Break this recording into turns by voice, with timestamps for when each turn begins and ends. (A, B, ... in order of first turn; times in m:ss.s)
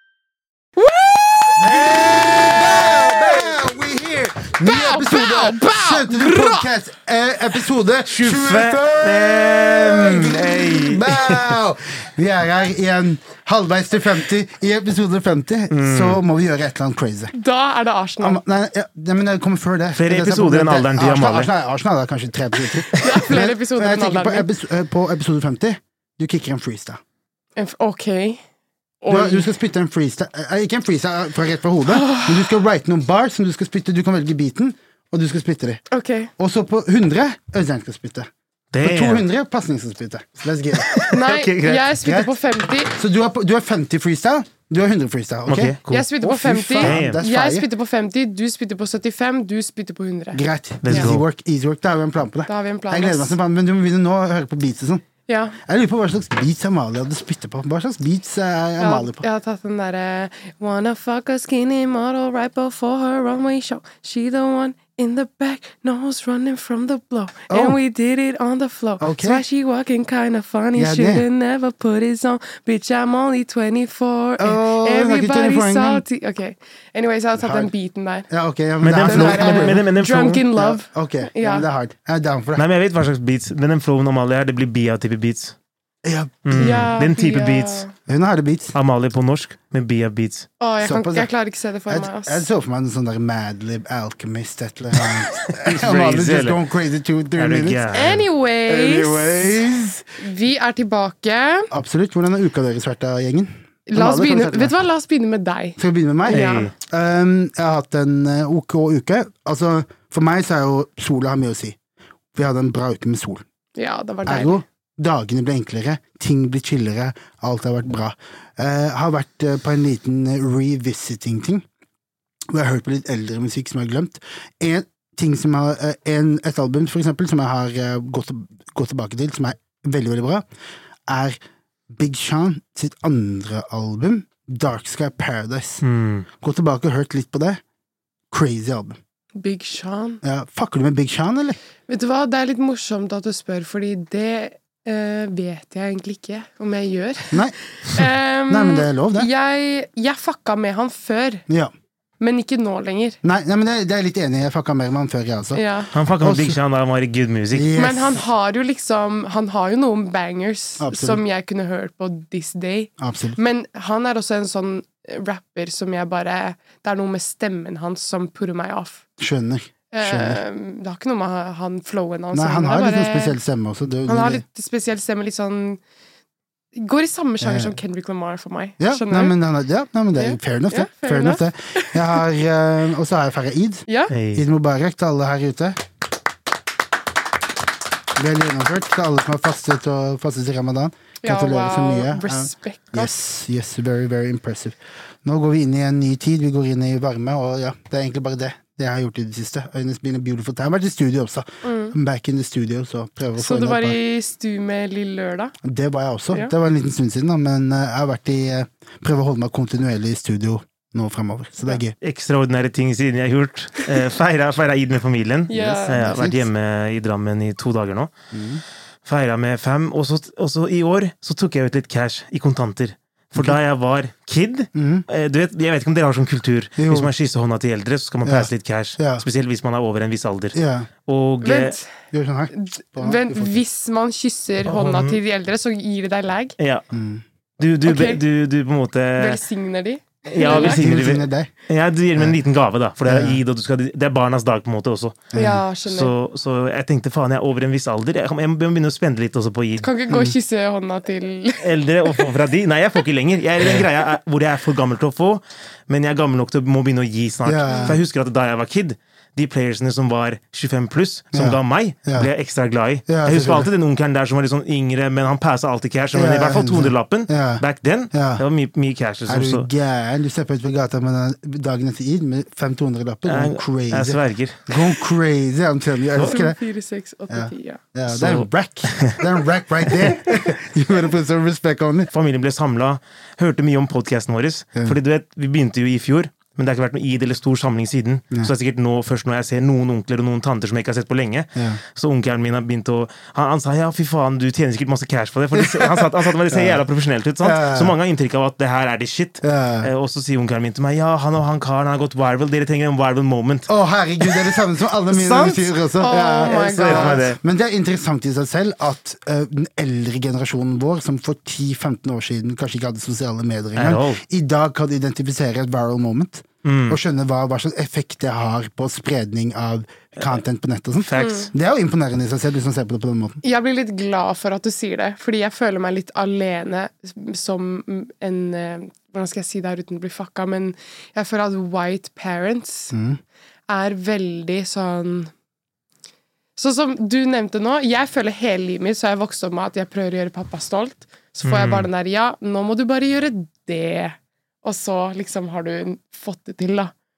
0:00.8-0:03.4 A
0:01.6-0:17.3 B
0:04.6-0:06.7 A
0:08.1-0:11.5 C
0:15.7-0:16.2 C
0:17.3-0:18.4 A
0:18.2-0:27.0 B
0:20.0-0:21.5 C
0:22.9-0:24.5 A
0:27.6-0:28.4 A
0:29.0-0:29.5 A
0:29.1-0:35.8 B
0:31.9-0:32.6 A
0:35.9-0:36.3 A
0:36.4-0:38.3 B
0:38.7-0:39.2 C
0:38.8-0:41.1 B
0:40.8-0:41.9 C
0:41.1-0:43.0 A
0:42.0-0:42.3 B
0:43.0-0:47.7 B
0:45.5-0:46.0 C
0:45.9-0:51.1 A
0:46.8-0:47.2 C
0:50.3-0:55.1 B
0:50.8-0:51.2 C
0:52.5-0:53.4 A
0:55.3-0:55.6 A
0:55.6-0:59.2 B
0:58.8-1:18.3 A
1:07.5-1:07.8 B
1:09.0-1:09.4 B
1:10.8-1:11.2 B
1:14.4-1:16.0 B
1:17.4-1:17.7 B
1:18.3-1:19.9 B
1:18.8-1:20.4 C
1:18.9-1:21.7 A
1:20.5-1:22.7 B
1:22.6-1:25.6 C
1:26.0-1:26.9 B
1:26.4-1:27.9 C
1:26.6-1:27.9 A
1:28.1-1:28.8 B
1:28.7-1:30.5 C
1:30.6-1:32.5 A
1:30.8-1:31.3 B
1:31.9-1:40.1 B
1:35.0-1:36.6 C
1:37.4-1:38.2 C
1:37.9-1:39.6 A
1:40.2-1:41.7 A
1:41.7-1:44.7 B
1:43.9-1:46.7 A
1:45.8-1:51.8 B
1:46.3-1:46.7 C
1:52.4-1:53.4 B
1:53.8-1:54.6 A
1:54.2-2:01.6 B
2:02.5-2:10.4 B
2:11.1-2:11.4 B
2:11.9-2:15.8 B
2:15.8-2:16.3 C
2:16.4-2:17.6 B
2:18.3-2:19.0 B
2:19.4-2:20.2 A
2:20.2-2:21.6 B
2:21.9-2:31.4 A
2:28.5-2:29.3 B
2:32.2-2:33.2 A
2:33.2-2:35.6 B
2:35.5-2:35.9 A
2:35.9-2:37.7 C
2:36.2-2:36.6 B
2:37.5-2:38.2 B
2:37.7-2:49.0 A
2:40.8-2:41.2 B
2:43.0-2:43.4 B
2:49.2-2:50.4 B
2:49.9-2:53.4 A
2:52.3-2:54.4 B
2:54.1-2:55.8 A
2:56.7-2:59.3 A
2:57.4-2:57.8 B
2:58.8-3:05.8 B
3:00.2-3:02.2 A
3:03.9-3:04.1 A
3:04.1-3:04.4 C
3:08.2-3:24.0 B
3:11.2-3:13.1 A
3:21.6-3:22.0 A
3:23.4-3:25.5 A
3:25.6-3:32.0 B
3:32.0-3:38.1 C
3:35.5-3:36.3 A
3:35.6-3:36.4 B
3:38.3-3:38.6 B
3:39.0-3:51.8 C
3:44.8-3:45.1 B
3:46.8-3:47.1 B
3:48.2-3:49.3 B
3:50.5-3:50.9 B
3:51.4-3:51.9 A
3:52.1-3:53.6 B
3:52.5-3:56.6 A
3:54.6-3:55.2 C
3:56.6-3:56.8 C
3:56.9-3:57.2 B
3:57.6-3:59.4 C
3:57.8-3:58.2 A
3:59.2-4:00.8 A
4:00.3-4:05.3 C
4:00.4-4:01.5 B
4:03.0-4:03.4 B
4:05.3-4:05.6 B
4:05.3-4:06.1 A
4:05.8-4:09.9 C
4:09.8-4:12.3 A
4:10.1-4:10.4 B
4:11.6-4:29.7 C
4:17.4-4:18.0 B
4:17.7-4:18.0 A
4:21.3-4:22.3 B
4:23.1-4:23.7 B
4:26.1-4:28.4 B
4:29.3-4:36.6 B
4:33.3-4:34.8 C
4:36.2-4:37.8 A
4:37.3-4:42.1 B
4:38.1-4:39.2 C
4:42.1-5:03.7 C
4:55.5-4:56.8 B
4:57.4-4:58.0 B
4:59.4-4:59.9 B
5:03.7-5:23.4 B
5:05.2-5:05.6 C
5:05.3-5:07.2 A
5:06.4-5:07.4 C
5:13.8-5:14.2 C
5:16.6-5:17.0 C
5:21.1-5:21.5 C
5:21.2-5:21.5 A
5:23.4-5:32.9 A
5:32.9-5:33.2 B
5:33.7-5:35.3 A
5:36.6-5:46.9 A
5:41.4-5:41.9 C